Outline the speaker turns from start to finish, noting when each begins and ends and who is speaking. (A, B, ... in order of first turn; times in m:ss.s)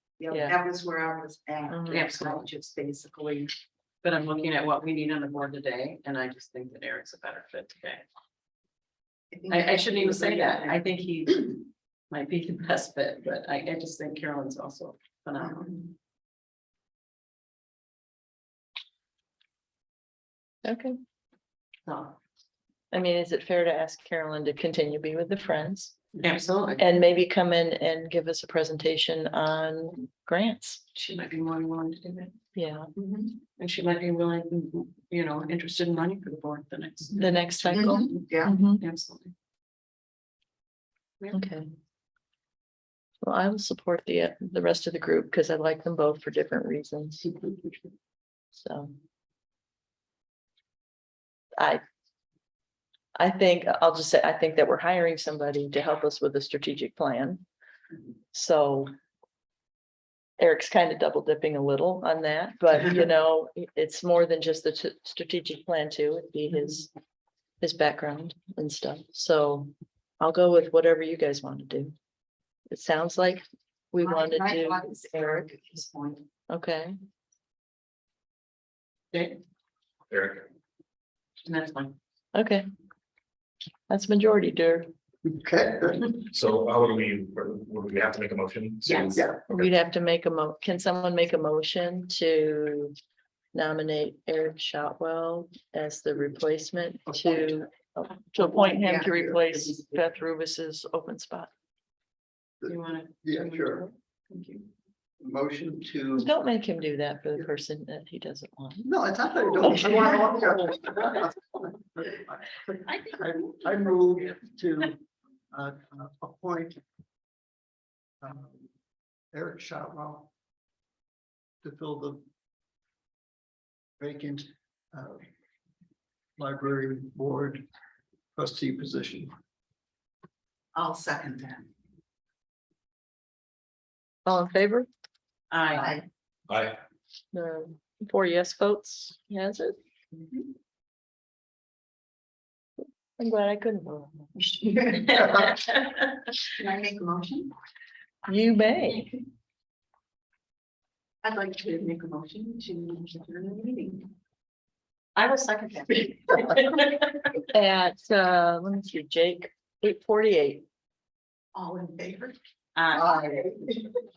0:00.2-0:03.5 A
0:00.3-0:00.6 B
0:01.7-0:02.1 B
0:01.9-0:02.5 C
0:04.0-0:08.0 C
0:09.3-0:10.8 A
0:09.5-0:15.7 C
0:15.4-0:15.8 A
0:20.6-0:21.0 B
0:21.9-0:22.2 C
0:22.9-0:26.0 B
0:26.2-0:26.8 C
0:26.8-0:30.8 B
0:30.9-0:32.4 C
0:32.6-0:32.9 B
0:33.0-0:33.3 A
0:33.6-0:39.3 C
0:37.2-0:38.8 B
0:37.7-0:38.5 A
0:41.3-0:41.6 B
0:43.2-0:47.2 B
0:48.6-0:48.9 B
0:53.2-0:57.4 B
0:58.3-0:58.9 B
1:00.4-1:06.9 B
1:07.6-1:11.9 B
1:12.7-1:15.8 B
1:14.0-1:16.2 A
1:16.5-1:17.0 B
1:19.1-1:19.4 C
1:20.1-1:20.4 D
1:21.4-1:21.9 C
1:22.3-1:22.6 B
1:23.9-1:24.9 B
1:25.2-1:26.2 E
1:26.3-1:29.7 D
1:28.9-1:29.1 C
1:29.1-1:29.4 E
1:29.5-1:33.0 B
1:33.5-1:41.5 B
1:38.6-1:39.8 A
1:42.6-1:43.9 E
1:42.6-1:44.7 C
1:45.2-1:46.3 E
1:46.2-1:48.9 B
1:48.8-1:55.0 E
1:49.8-1:50.2 A
1:53.0-1:53.6 C
1:55.5-1:56.8 E
1:58.2-1:58.6 E
1:59.3-2:00.3 E
2:01.6-2:02.2 E
2:04.0-2:05.2 E
2:06.4-2:07.6 E
2:08.4-2:09.3 E
2:10.8-2:11.7 A
2:14.2-2:14.9 B
2:15.5-2:16.0 C
2:15.7-2:16.0 A
2:16.5-2:16.8 D
2:17.3-2:19.8 B
2:22.8-2:24.3 B
2:24.5-2:25.5 A
2:24.9-2:25.4 C
2:26.6-2:27.5 A
2:28.3-2:29.1 B
2:31.2-2:34.1 A
2:35.2-2:37.3 C
2:37.5-2:40.6 B
2:41.5-2:42.4 A
2:42.8-2:43.2 C
2:42.9-2:43.7 A
2:43.0-2:43.7 E